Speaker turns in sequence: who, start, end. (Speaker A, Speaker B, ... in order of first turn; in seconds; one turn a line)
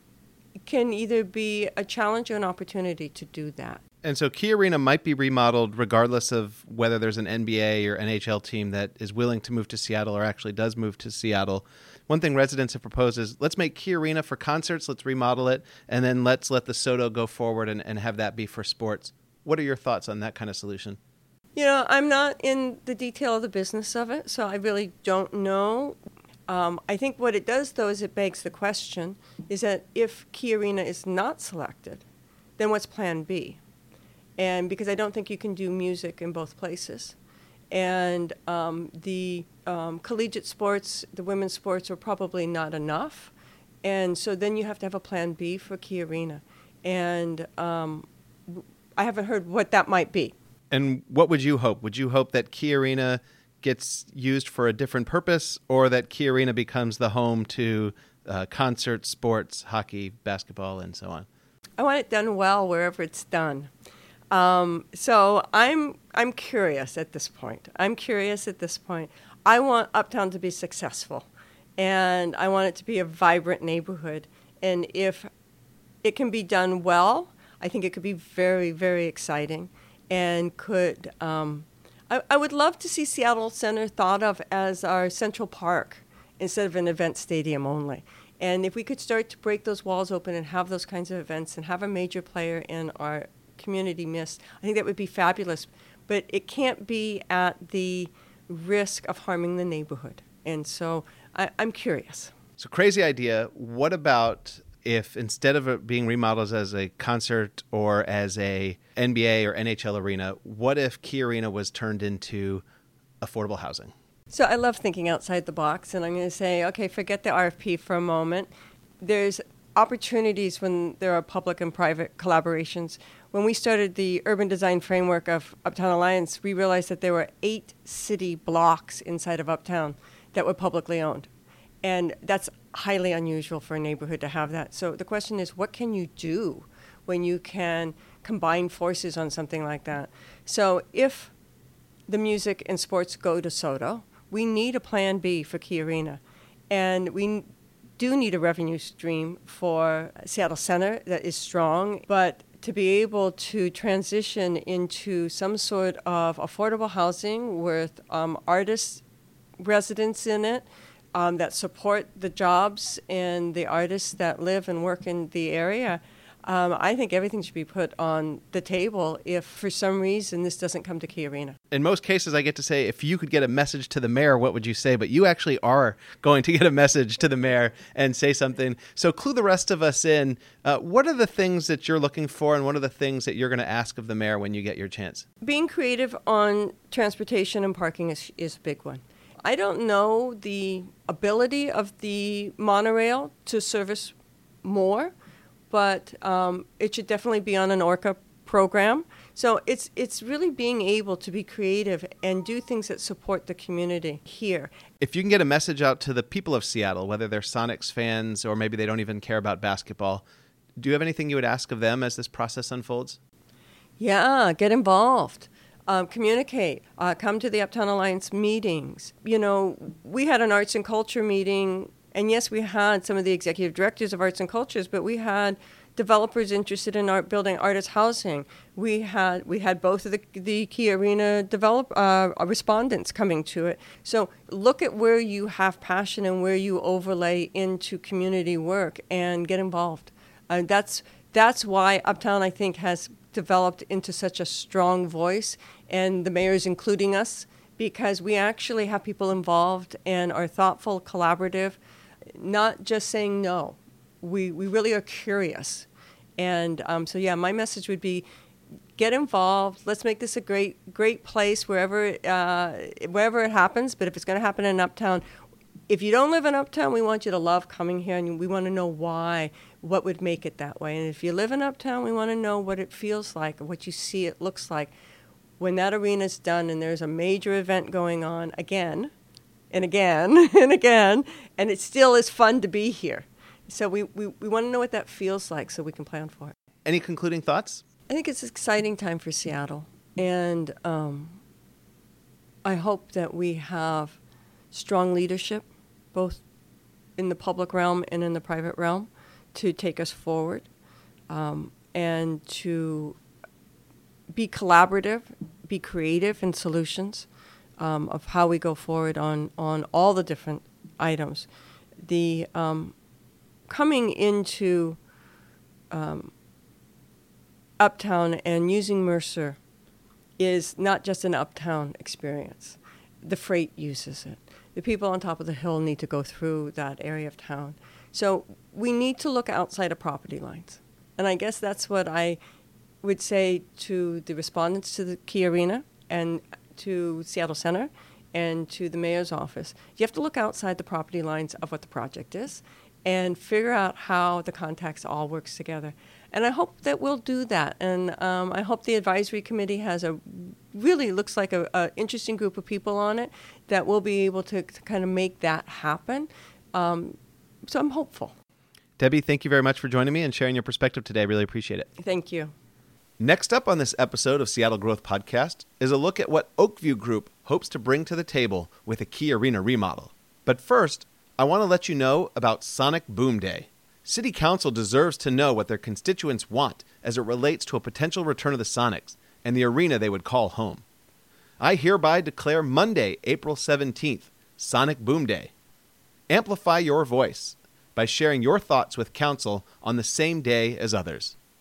Speaker A: 0.7-3.8
Speaker B: 4.0-21.0
Speaker A: 21.6-26.0
Speaker A: 26.5-32.0
Speaker A: 32.6-33.6
Speaker A: 34.4-37.1
Speaker A: 37.7-43.3
Speaker A: 43.8-50.4
Speaker B: 50.7-61.3
Speaker A: 61.8-63.7
Speaker A: 64.3-75.3
Speaker A: 76.0-102.3
Speaker B: 102.6-112.6
Speaker B: 113.2-113.9
Speaker A: 114.3-131.3
Speaker A: 131.8-141.3
Speaker A: 142.1-159.0
Speaker A: 159.6-171.6
Speaker B: 171.7-185.3
Speaker A: 185.4-195.1
Speaker A: 195.7-204.7
Speaker B: 205.0-210.2
Speaker B: 210.8-213.2
Speaker A: 214.0-251.8
Speaker A: 252.4-255.9
Speaker A: 256.4-258.3
Speaker A: 259.0-265.2
Speaker A: 265.9-274.9
Speaker A: 275.6-279.1
Speaker A: 279.7-286.5
Speaker B: 286.9-287.8
Speaker A: 288.1-291.4
Speaker A: 292.6-294.2
Speaker A: 294.7-296.4
Speaker A: 297.2-300.7
Speaker A: 301.3-303.2
Speaker A: 304.3-307.3
Speaker A: 307.8-311.5
Speaker A: 312.0-312.9
Speaker A: 313.7-315.0
Speaker A: 315.9-316.3
Speaker A: 317.8-319.6
Speaker A: 320.4-332.4
Speaker A: 333.0-357.2
Speaker A: 357.7-358.3
Speaker B: 359.0-361.9
Speaker A: 362.0-362.5
Speaker B: 363.2-380.8
Speaker B: 381.6-385.5
Speaker B: 386.3-391.4